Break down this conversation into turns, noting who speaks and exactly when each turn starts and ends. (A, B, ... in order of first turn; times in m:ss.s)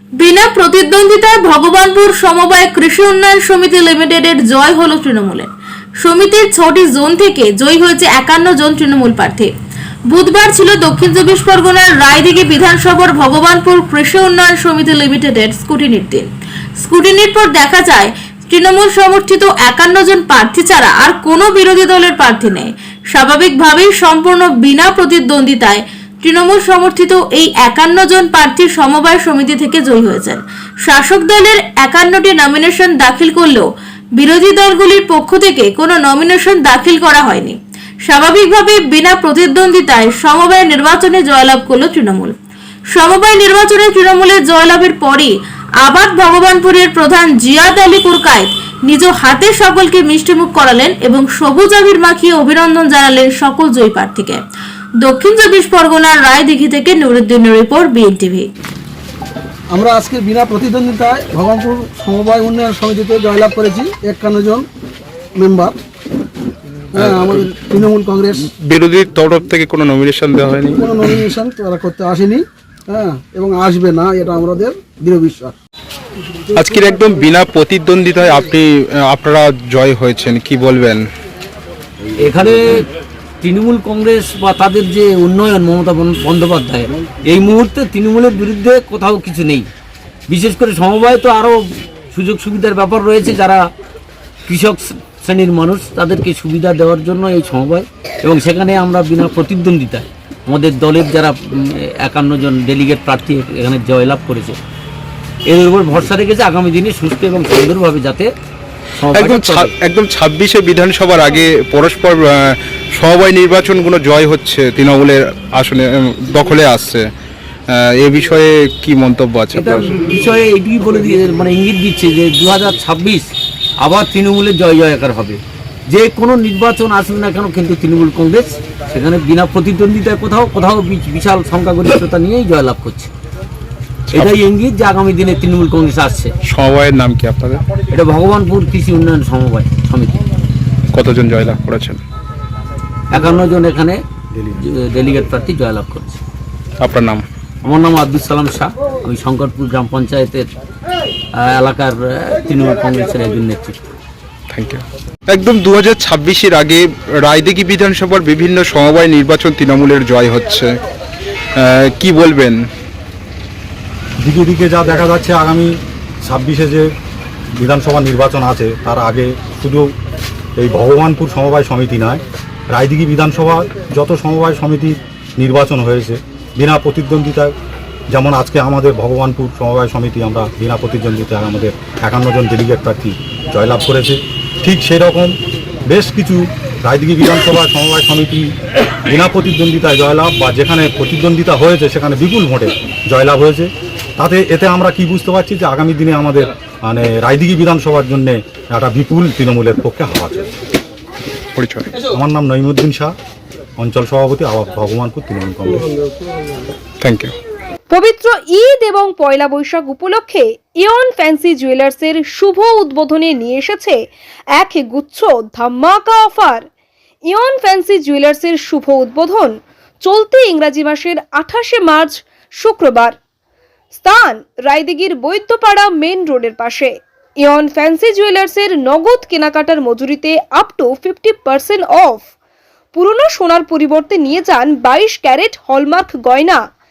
0:00.2-0:05.5 A
0:06.0-0:09.5 A
0:10.1-0:16.3 A
0:16.8-0:33.6 A
0:34.2-0:42.3 A
0:42.9-0:45.3 A
0:45.8-0:54.4 A
0:55.0-0:58.5 A
0:59.7-1:04.7 B
1:05.4-1:05.8 B
1:06.9-1:08.5 B
1:07.0-1:07.5 C
1:08.6-1:11.2 C
1:10.8-1:15.6 B
1:16.6-1:21.0 C
1:22.3-1:22.6 D
1:23.4-1:29.6 D
1:30.3-1:31.6 D
1:32.1-1:33.6 D
1:34.5-1:41.4 D
1:42.0-1:44.6 D
1:45.5-1:48.3 D
1:49.0-1:49.7 D
1:49.1-1:57.0 C
1:57.8-2:00.0 C
1:59.6-2:03.2 D
2:03.8-2:05.4 D
2:05.9-2:13.1 D
2:14.1-2:14.4 C
2:14.2-2:16.3 D
2:16.4-2:17.6 C
2:17.9-2:20.2 D
2:20.9-2:22.0 C
2:23.2-2:24.0 D
2:24.6-2:26.2 D
2:26.8-2:27.2 C
2:27.6-2:30.5 D
2:31.4-2:33.8 D
2:34.5-2:40.7 C
2:41.6-2:42.6 C
2:44.2-2:45.7 E
2:46.2-2:46.9 E
2:47.6-2:49.9 E
2:50.6-2:57.5 E
2:58.1-3:05.3 E
3:05.9-3:08.5 E
3:09.1-3:20.5 E
3:21.6-3:21.9 C
3:22.1-3:23.1 E
3:23.8-3:25.9 E
3:27.0-3:27.3 C
3:27.9-3:34.0 F
3:34.5-3:36.7 F
3:37.3-3:43.2 F
3:43.9-3:52.3 F
3:52.9-3:56.6 F